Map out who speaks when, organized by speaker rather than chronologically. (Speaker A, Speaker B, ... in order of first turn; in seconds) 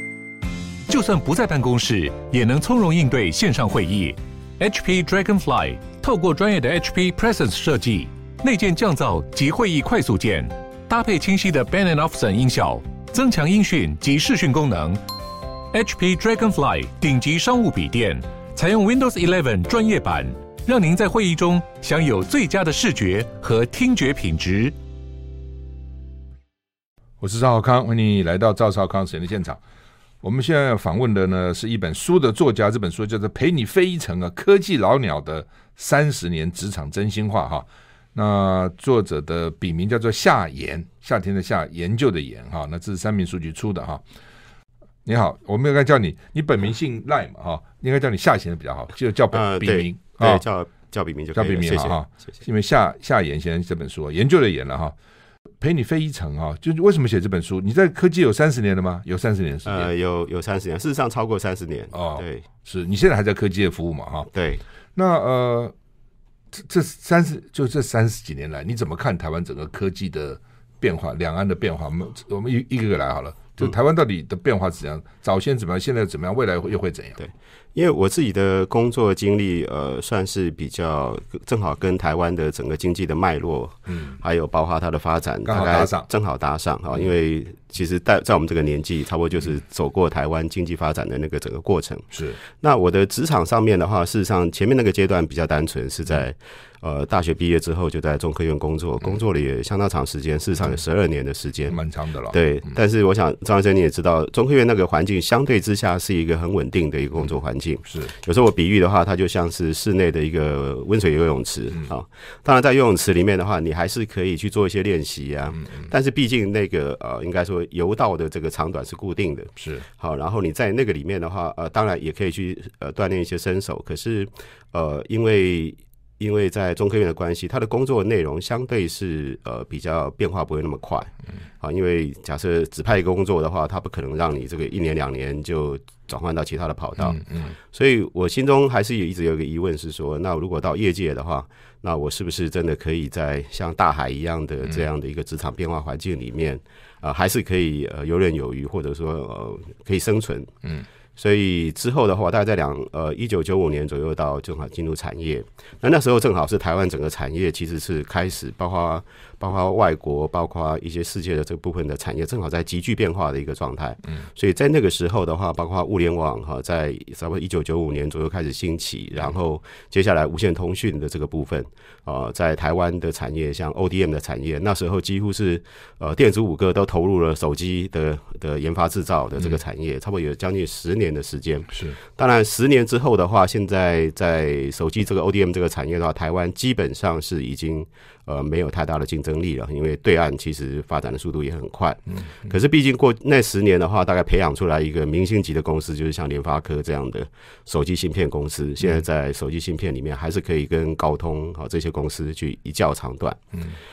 Speaker A: 0.9-15.0, 15.7-24.7
Speaker B: 27.2-29.6, 30.2-44.0, 45.0-50.4, 51.3-54.9, 55.6-59.9, 61.9-64.3, 64.9-65.7, 66.5-77.2, 83.9-84.2, 85.4-86.1, 92.1-92.4, 101.7-102.4, 137.1-137.5
Speaker C: 49.3-52.0, 59.6-62.4, 64.3-64.6, 77.2-101.8, 102.3-150.5, 151.2-203.4